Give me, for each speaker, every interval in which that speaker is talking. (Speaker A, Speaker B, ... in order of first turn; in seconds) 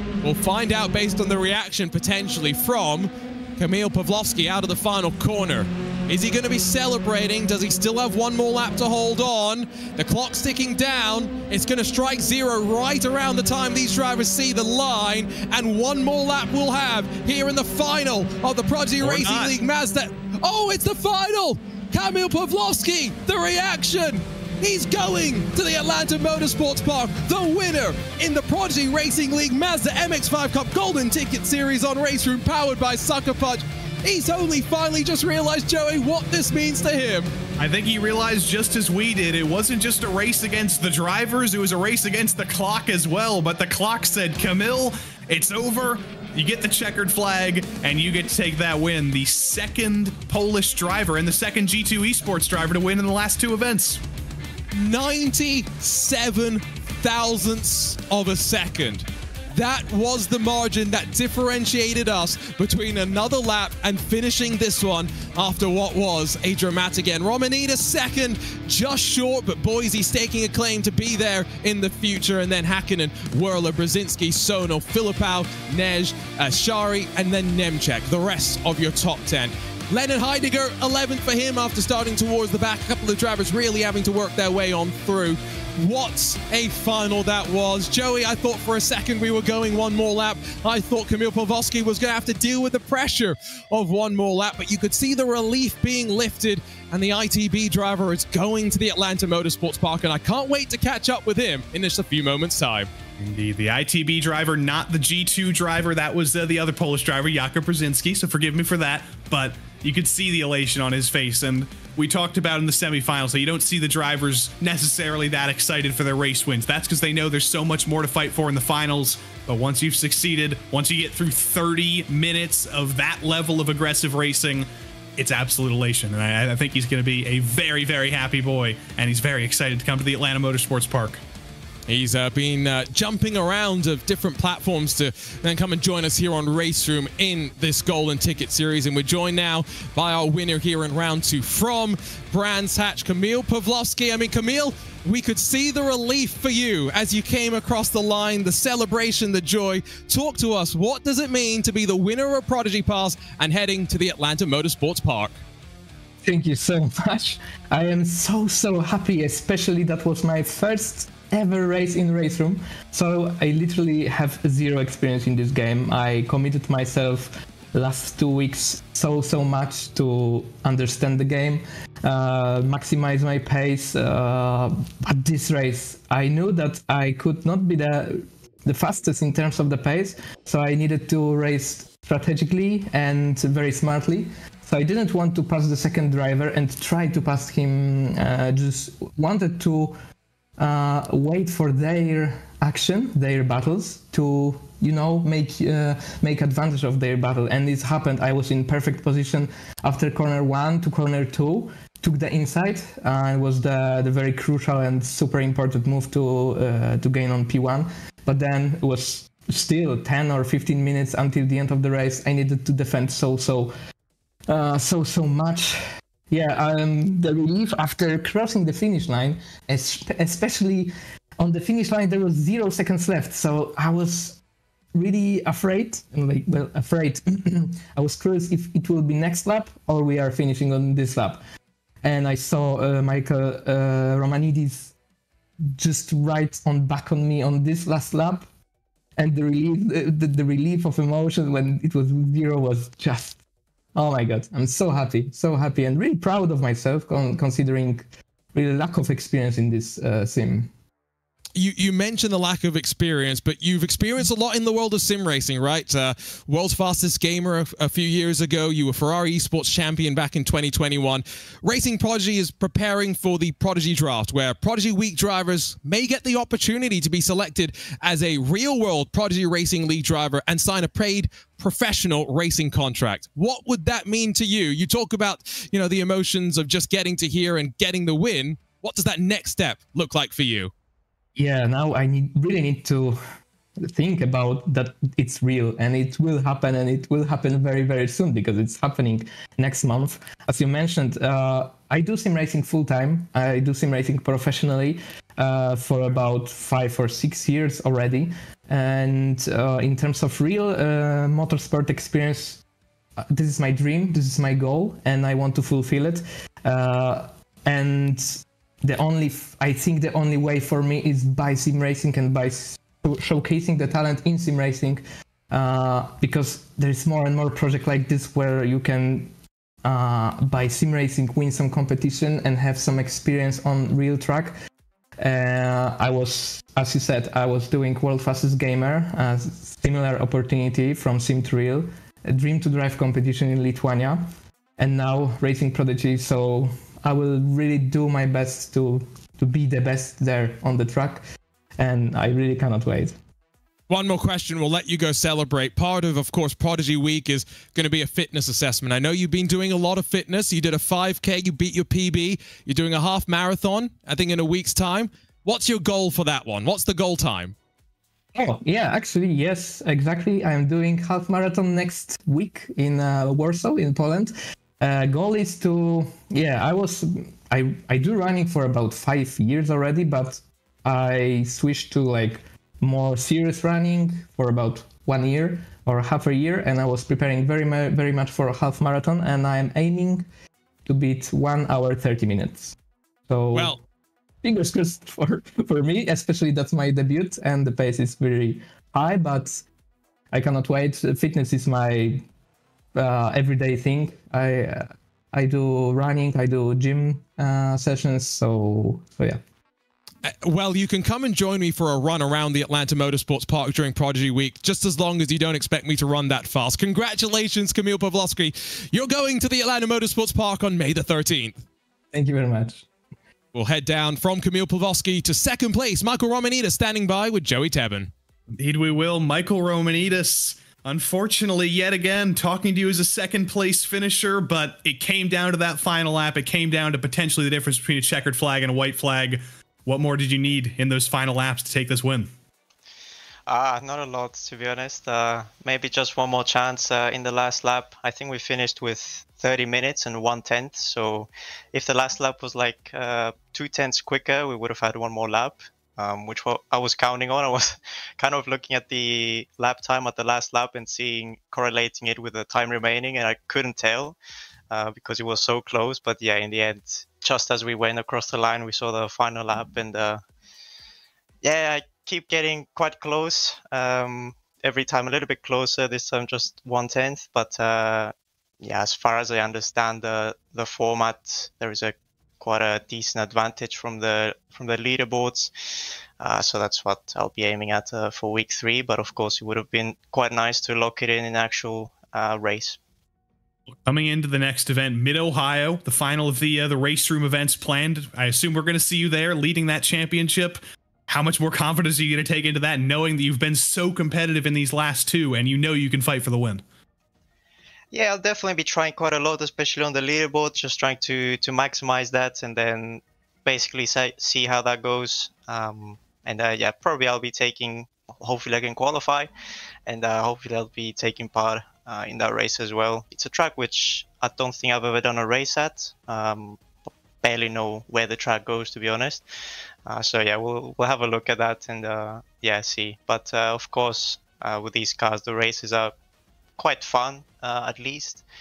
Speaker A: 0.2-37.3, 54.7-102.9, 131.9-155.4, 251.6-280.7, 343.9-357.5, 383.5-383.8, 400.2-411.6, 413.5-418.1
Speaker B: 19.0-19.6, 37.6-54.0, 103.2-131.2, 418.5-432.3, 483.9-496.6
Speaker C: 156.2-190.0, 190.6-213.7, 214.5-224.4, 224.9-231.4, 232.0-234.9, 235.8-238.5, 239.2-243.4, 243.9-250.7, 281.4-283.2, 283.9-302.6, 303.2-319.3, 319.8-324.5, 325.2-334.2, 334.8-341.2, 341.8-343.2, 358.4-380.3, 380.9-382.8, 383.3-383.8, 384.4-389.6, 390.3-392.2, 392.9-399.4, 412.1-412.9
Speaker D: 433.5-454.2, 454.7-460.2, 461.4-475.5, 476.2-482.8, 497.9-509.3, 509.9-519.3, 519.9-526.0, 526.6-528.2